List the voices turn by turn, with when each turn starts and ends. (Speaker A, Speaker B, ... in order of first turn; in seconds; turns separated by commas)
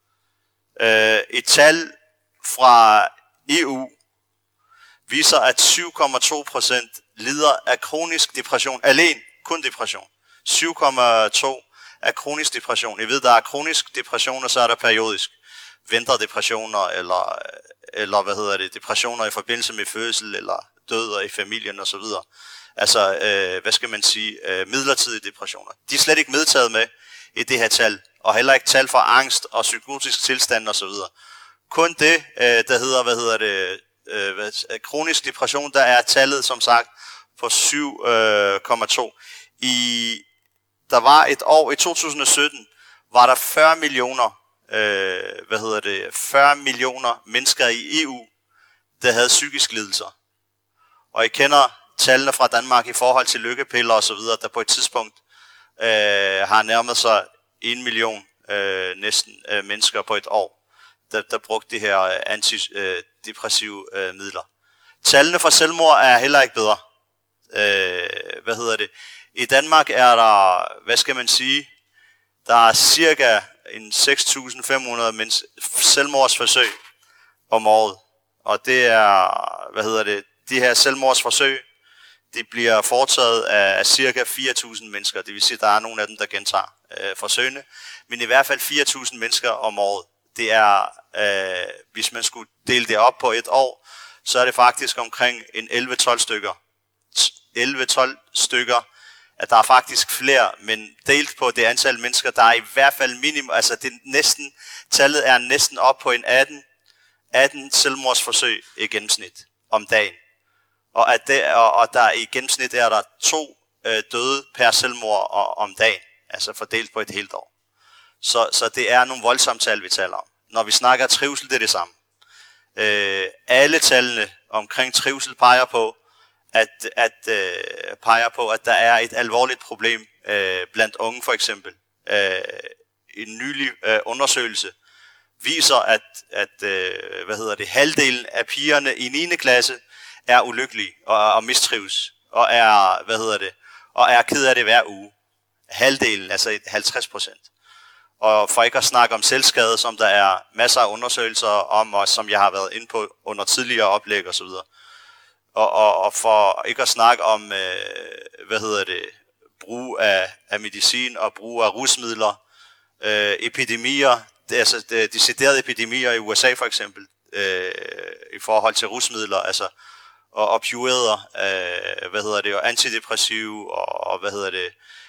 Speaker A: 0.8-3.9, Speaker A: 5.1-15.3, Speaker A: 15.9-22.2, Speaker A: 22.8-31.1, Speaker A: 31.7-40.2, Speaker A: 40.9-48.3, Speaker A: 49.0-50.1, Speaker A: 51.1-55.2, Speaker A: 55.8-60.5, Speaker A: 61.1-64.5, Speaker A: 65.0-66.8, Speaker A: 67.5-71.7, Speaker A: 72.5-76.7, Speaker A: 77.5-81.6, Speaker A: 82.3-96.6, Speaker A: 97.1-98.8, Speaker A: 99.4-106.6, Speaker A: 107.3-110.2, Speaker A: 110.9-117.5, Speaker A: 118.2-121.9, Speaker A: 122.8-126.0, Speaker A: 126.5-134.7, Speaker A: 135.4-145.1, Speaker A: 145.7-147.4, Speaker A: 148.2-154.7, Speaker A: 155.6-162.4, Speaker A: 163.0-169.7, Speaker A: 170.3-174.7